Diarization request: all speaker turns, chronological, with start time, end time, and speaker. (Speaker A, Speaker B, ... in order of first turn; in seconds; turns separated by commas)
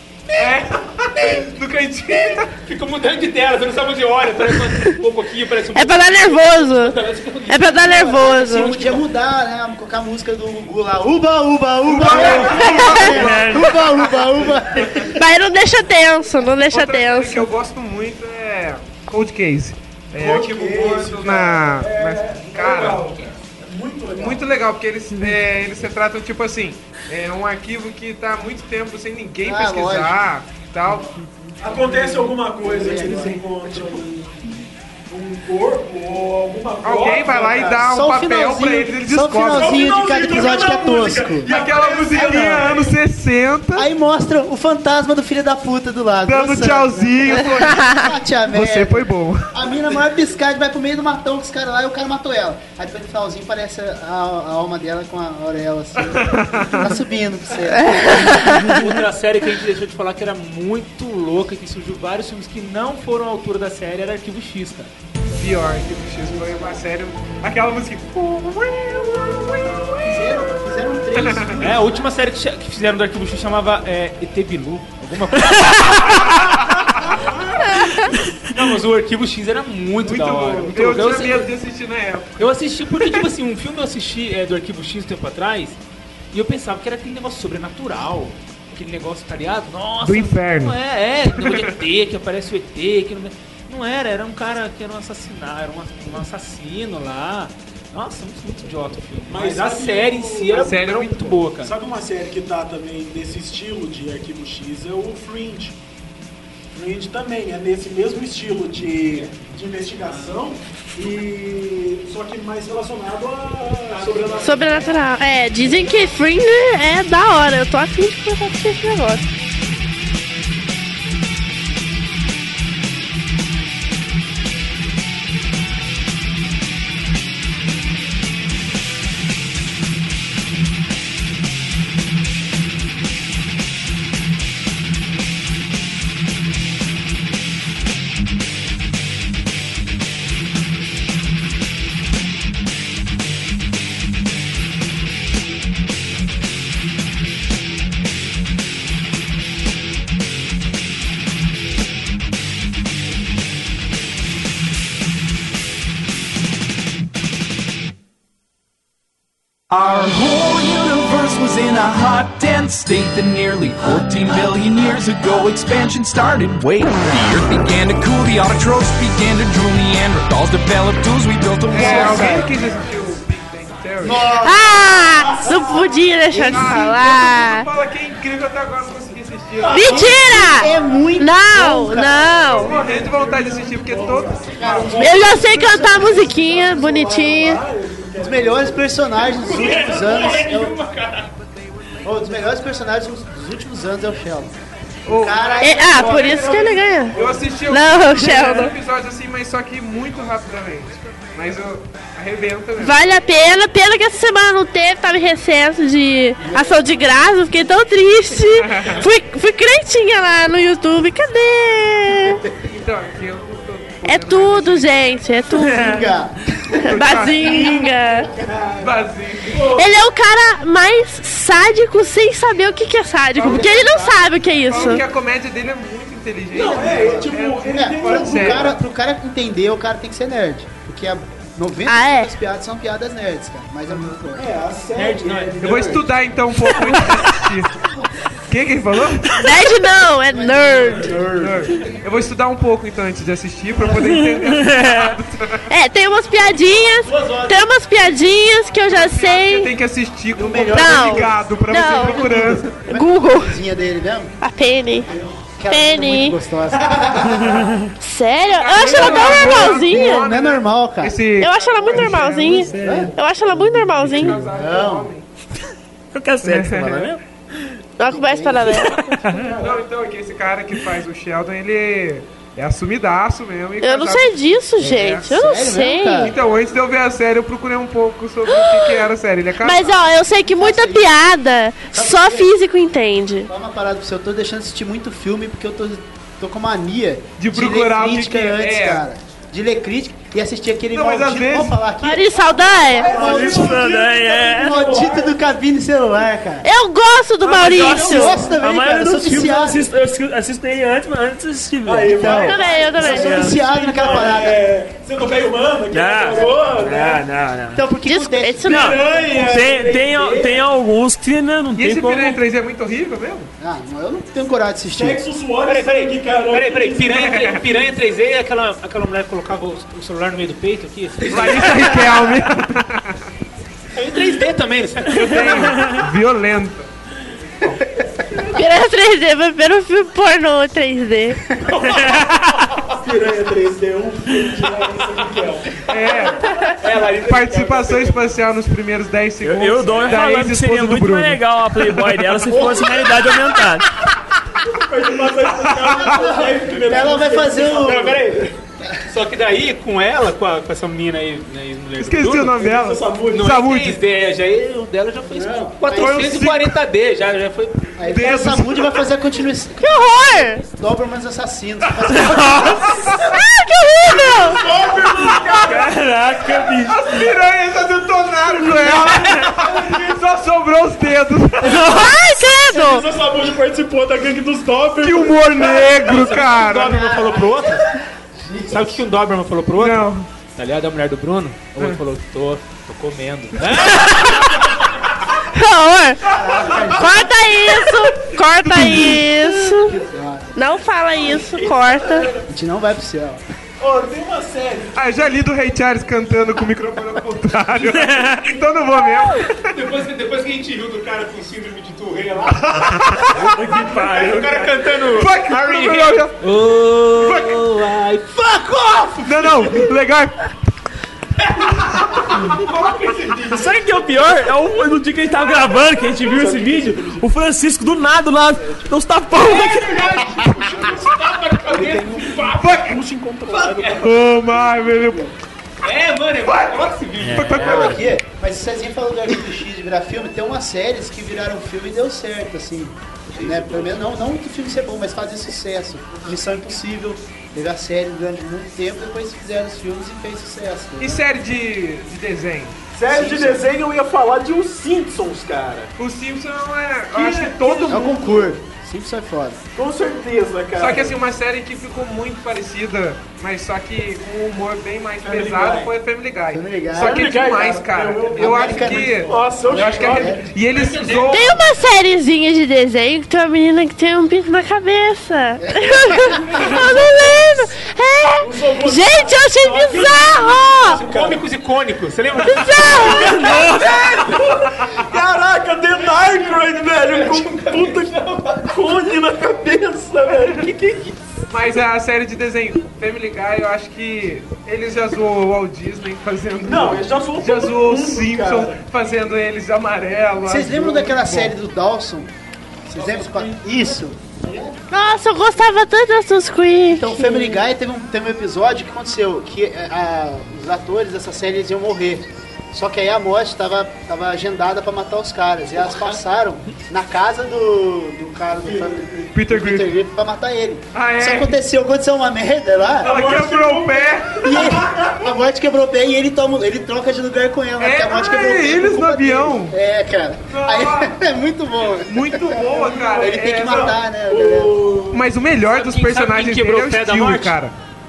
Speaker A: 0.3-0.6, Speaker B: 0.4-2.5, Speaker A: 1.2-1.5, Speaker A: 2.3-9.0, Speaker C: 5.8-8.8, Speaker D: 8.2-15.1, Speaker E: 11.9-13.5, Speaker B: 11.9-13.4, Speaker C: 12.5-13.2, Speaker F: 13.1-13.8, Speaker C: 15.1-17.5, Speaker B: 16.7-23.2, Speaker E: 20.2-24.5, Speaker B: 24.1-31.2, Speaker D: 29.4-30.2, Speaker E: 31.6-34.5, Speaker B: 31.8-32.2, Speaker D: 32.6-33.5, Speaker B: 32.8-33.3, Speaker E: 35.1-37.8, Speaker B: 36.8-40.2, Speaker D: 37.6-41.6, Speaker E: 39.5-42.9, Speaker B: 41.4-43.9, Speaker D: 42.1-42.9, Speaker D: 43.8-58.9, Speaker B: 46.2-49.5, Speaker B: 56.0-57.0, Speaker C: 57.7-58.8, Speaker A: 58.1-64.9, Speaker B: 65.3-70.4, Speaker D: 70.1-72.0, Speaker B: 71.1-71.6, Speaker A: 71.6-77.3, Speaker B: 76.4-77.2, Speaker C: 77.7-78.0, Speaker A: 78.5-81.5, Speaker B: 80.0-83.2, Speaker A: 82.4-85.8, Speaker A: 86.3-101.8, Speaker B: 90.0-90.8, Speaker B: 91.4-91.8, Speaker E: 99.3-100.8, Speaker B: 100.5-101.5, Speaker E: 101.6-105.8, Speaker E: 106.7-115.0, Speaker A: 110.0-110.4, Speaker A: 113.9-115.0, Speaker C: 114.4-119.2, Speaker E: 115.8-116.0, Speaker G: 159.8-172.3, Speaker B: 171.7-174.4, Speaker D: 171.8-172.6, Speaker D: 174.0-177.0, Speaker C: 174.4-177.7, Speaker B: 176.4-180.1, Speaker E: 179.6-180.8, Speaker C: 179.7-182.7, Speaker D: 180.2-182.4, Speaker E: 182.5-190.6, Speaker B: 182.6-185.9, Speaker D: 184.6-185.1, Speaker C: 185.0-187.6, Speaker D: 188.2-190.8, Speaker A: 189.2-191.3, Speaker D: 192.0-194.6, Speaker B: 195.1-196.5, Speaker D: 195.1-196.4, Speaker C: 195.6-197.2, Speaker E: 195.9-197.6, Speaker B: 197.1-203.0, Speaker C: 197.7-198.7, Speaker C: 202.8-212.4, Speaker D: 206.4-206.8, Speaker B: 208.6-209.1, Speaker B: 212.6-215.0, Speaker C: 214.1-216.1, Speaker D: 215.6-216.8, Speaker B: 216.7-217.8, Speaker C: 216.8-218.3, Speaker E: 218.2-219.9, Speaker B: 218.8-219.6, Speaker C: 219.7-225.1, Speaker D: 223.4-224.2, Speaker B: 223.4-223.9, Speaker B: 224.7-228.8, Speaker D: 226.5-234.5, Speaker E: 226.5-228.8, Speaker C: 231.9-232.3, Speaker E: 234.4-236.2, Speaker A: 234.9-236.0, Speaker B: 235.6-237.7, Speaker B: 238.5-239.3, Speaker C: 239.4-241.2, Speaker D: 240.3-241.7, Speaker B: 241.3-245.7, Speaker F: 243.9-245.2, Speaker C: 245.7-249.7, Speaker E: 247.1-247.6, Speaker B: 248.9-252.8, Speaker D: 250.3-251.4, Speaker C: 250.7-253.6, Speaker D: 252.3-254.3, Speaker C: 254.4-255.1, Speaker D: 255.6-257.7, Speaker C: 255.7-256.4, Speaker E: 256.9-257.3, Speaker C: 258.0-260.2, Speaker B: 258.5-263.0, Speaker D: 258.9-261.2, Speaker C: 261.4-264.4, Speaker F: 262.7-263.1, Speaker D: 262.7-263.1, Speaker B: 263.9-265.3, Speaker D: 264.3-265.1, Speaker F: 266.1-267.7, Speaker B: 266.4-267.2, Speaker C: 268.0-268.9, Speaker D: 268.0-268.9, Speaker F: 268.8-269.5, Speaker E: 268.9-269.9, Speaker B: 269.6-275.2, Speaker C: 273.8-276.3, Speaker D: 274.9-276.4, Speaker B: 276.2-280.1, Speaker C: 278.5-279.1, Speaker C: 279.6-283.5, Speaker D: 280.5-281.1, Speaker D: 281.9-282.5, Speaker D: 283.5-296.7, Speaker B: 287.4-289.1, Speaker B: 290.9-291.8, Speaker C: 292.0-293.1, Speaker E: 292.9-295.4, Speaker F: 293.2-294.9, Speaker C: 296.6-298.4, Speaker B: 297.4-298.3, Speaker E: 297.6-298.5, Speaker D: 298.0-299.9, Speaker F: 298.5-304.2, Speaker E: 301.8-307.2, Speaker D: 302.1-304.6, Speaker C: 302.2-303.5, Speaker F: 305.9-307.8, Speaker D: 307.7-309.1, Speaker C: 308.1-309.0, Speaker F: 308.6-312.4, Speaker E: 308.7-310.7, Speaker B: 311.8-313.5, Speaker D: 313.6-315.2, Speaker E: 314.9-317.3, Speaker A: 315.6-322.4, Speaker B: 317.2-317.6, Speaker B: 321.3-323.2, Speaker A: 323.9-325.9, Speaker B: 325.1-326.9, Speaker F: 325.7-326.0, Speaker B: 327.5-327.8, Speaker C: 328.5-331.4, Speaker A: 331.6-332.9, Speaker F: 331.8-332.4, Speaker E: 333.0-337.9, Speaker B: 335.8-336.5, Speaker A: 336.8-338.2, Speaker B: 337.1-342.1, Speaker F: 339.4-343.9, Speaker E: 342.5-343.4, Speaker E: 344.7-348.4, Speaker B: 345.3-346.4, Speaker D: 346.7-348.2, Speaker A: 347.5-352.6, Speaker B: 352.0-354.0, Speaker E: 352.5-353.6, Speaker A: 353.3-358.0, Speaker D: 355.3-355.8, Speaker B: 355.8-356.8, Speaker D: 358.0-359.9, Speaker B: 358.0-359.0, Speaker C: 359.8-360.7, Speaker D: 360.7-363.0, Speaker F: 362.2-362.8, Speaker C: 363.2-364.6, Speaker E: 364.1-365.9, Speaker B: 364.9-365.9, Speaker F: 365.6-367.3, Speaker B: 366.7-372.1, Speaker E: 369.1-370.1, Speaker E: 371.7-371.9, Speaker C: 371.7-373.1, Speaker E: 372.4-376.2, Speaker B: 375.0-377.1, Speaker A: 375.6-377.9, Speaker D: 376.9-377.8, Speaker D: 378.4-379.0, Speaker A: 378.7-384.8, Speaker B: 379.8-380.3, Speaker B: 381.8-382.0, Speaker C: 385.5-389.9, Speaker D: 386.2-387.5, Speaker B: 388.6-389.3, Speaker D: 389.7-390.8, Speaker C: 390.6-392.3, Speaker E: 391.2-392.5, Speaker D: 392.5-393.4, Speaker E: 393.8-395.0, Speaker B: 394.9-399.7, Speaker F: 397.9-398.5, Speaker A: 399.7-409.9, Speaker B: 402.5-406.4, Speaker E: 403.6-404.6, Speaker B: 407.1-407.9, Speaker B: 409.2-410.4, Speaker A: 411.4-413.2, Speaker B: 412.2-412.6, Speaker E: 413.3-413.8, Speaker F: 413.5-420.5, Speaker E: 415.4-417.3, Speaker A: 419.3-422.8, Speaker E: 421.7-424.2, Speaker B: 422.5-423.0, Speaker A: 423.5-424.1, Speaker B: 424.0-425.3, Speaker A: 425.8-427.9, Speaker B: 426.4-428.1, Speaker F: 427.2-428.0, Speaker D: 427.6-441.3, Speaker A: 433.3-434.0, Speaker B: 441.0-442.8, Speaker E: 442.9-445.9, Speaker D: 443.1-443.6, Speaker B: 446.0-448.5, Speaker E: 447.1-448.5, Speaker D: 447.9-449.6, Speaker E: 449.8-451.2, Speaker B: 450.8-461.7, Speaker E: 455.2-455.9, Speaker D: 456.5-457.4, Speaker E: 457.0-460.4, Speaker D: 458.4-460.4, Speaker A: 460.6-461.6, Speaker C: 461.3-471.0, Speaker D: 465.6-466.5, Speaker E: 468.4-471.5, Speaker A: 470.9-474.4, Speaker C: 472.4-474.0, Speaker E: 472.6-481.1, Speaker A: 476.0-478.8, Speaker B: 481.5-491.5, Speaker E: 486.6-488.8, Speaker D: 490.4-492.3, Speaker D: 492.9-494.8, Speaker E: 493.0-493.9, Speaker C: 494.9-497.6, Speaker D: 496.9-513.2, Speaker E: 508.6-509.1, Speaker B: 509.3-510.0, Speaker B: 510.9-511.6, Speaker B: 513.0-514.8, Speaker E: 513.0-515.3, Speaker D: 514.4-524.8, Speaker B: 517.8-519.8, Speaker B: 520.5-521.2, Speaker B: 521.9-524.0, Speaker E: 522.5-525.3, Speaker B: 525.1-527.7, Speaker A: 525.6-527.6